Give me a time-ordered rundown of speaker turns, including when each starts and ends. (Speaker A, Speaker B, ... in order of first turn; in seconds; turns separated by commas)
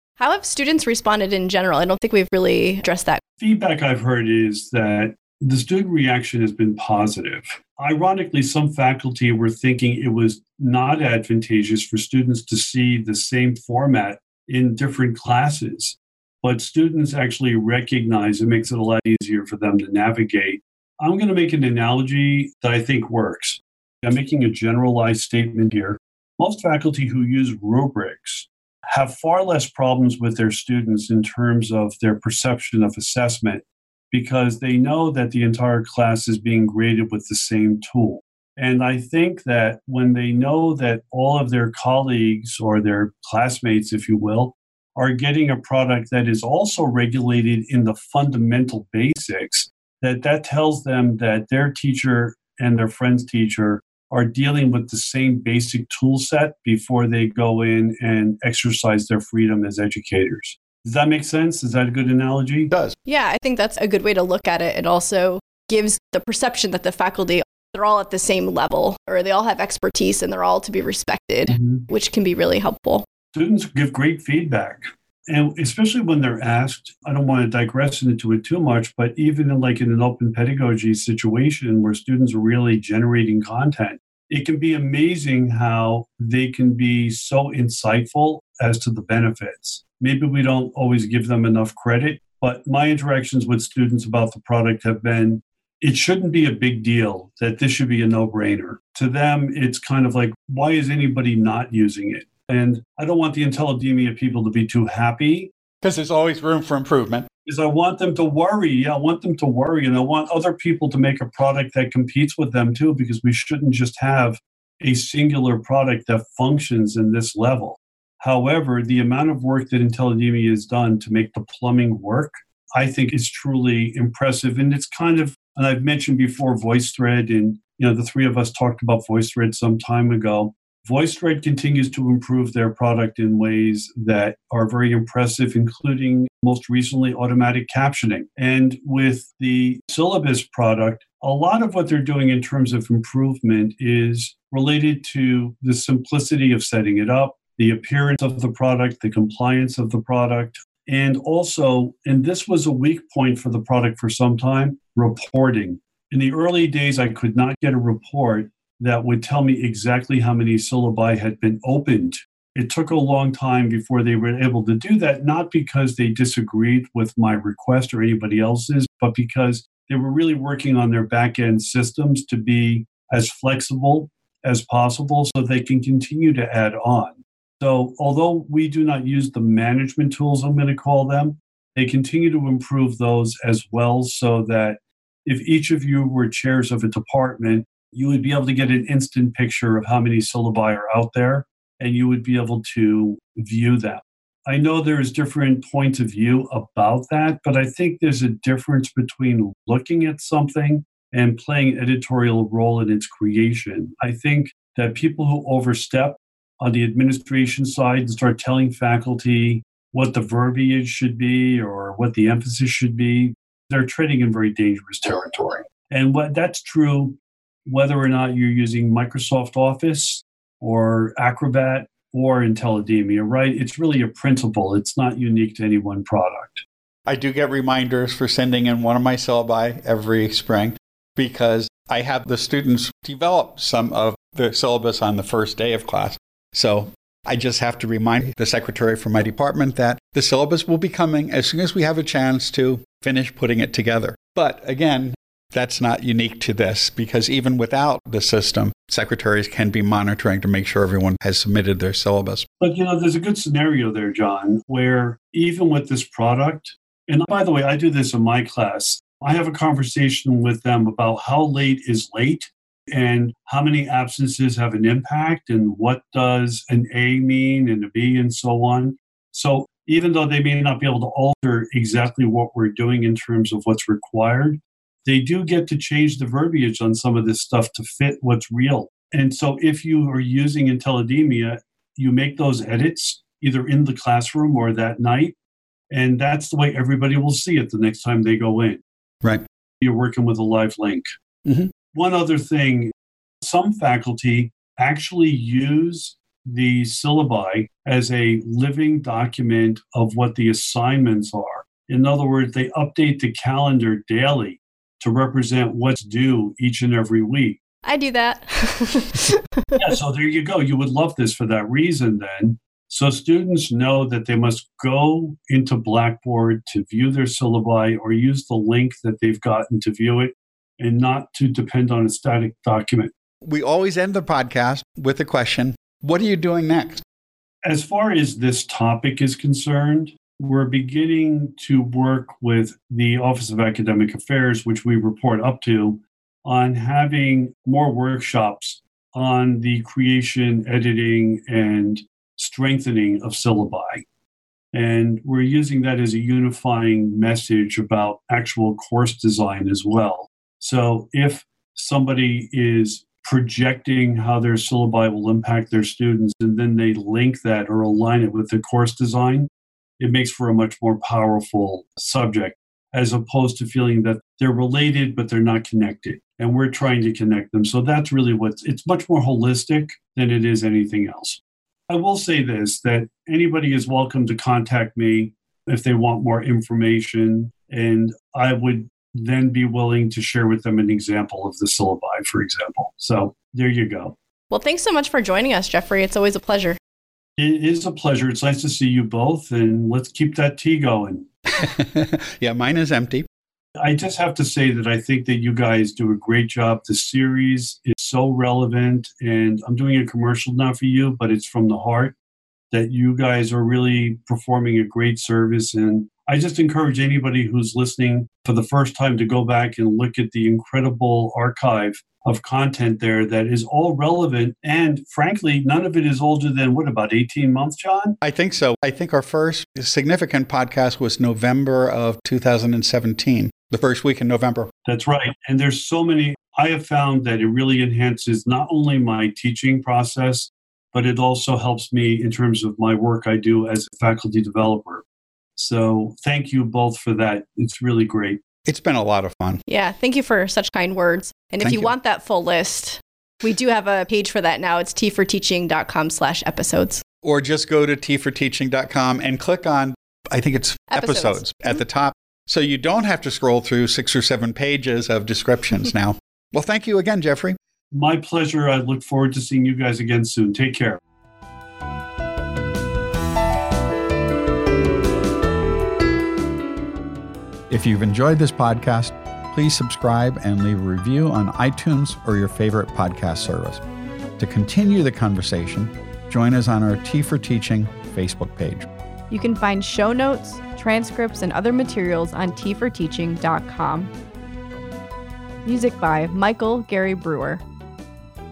Speaker A: 0.2-3.2, Speaker B: 3.4-62.7, Speaker C: 62.7-62.9, Speaker A: 63.0-73.0, Speaker B: 71.5-71.9, Speaker B: 73.3-105.5, Speaker C: 105.8-107.3, Speaker B: 107.5-226.6, Speaker C: 227.1-252.5, Speaker B: 252.6-285.3, Speaker B: 285.9-288.8, Speaker B: 289.8-291.1, Speaker C: 291.4-291.7, Speaker B: 291.9-307.6, Speaker A: 307.8-309.9, Speaker B: 309.8-323.1, Speaker C: 323.4-327.0, Speaker B: 327.6-344.0, Speaker B: 344.7-359.5, Speaker B: 360.0-384.1, Speaker A: 384.5-386.8, Speaker B: 387.4-391.3, Speaker C: 391.6-393.2, Speaker B: 393.8-402.1, Speaker B: 402.7-418.2, Speaker C: 418.2-424.7, Speaker B: 424.9-435.0, Speaker B: 435.6-438.4, Speaker C: 438.6-439.6, Speaker A: 439.7-447.0, Speaker C: 441.6-441.9, Speaker C: 447.2-457.6, Speaker A: 450.9-451.8, Speaker B: 457.9-461.0, Speaker C: 467.7-473.8, Speaker C: 474.4-478.9, Speaker A: 479.3-484.1, Speaker A: 485.6-487.6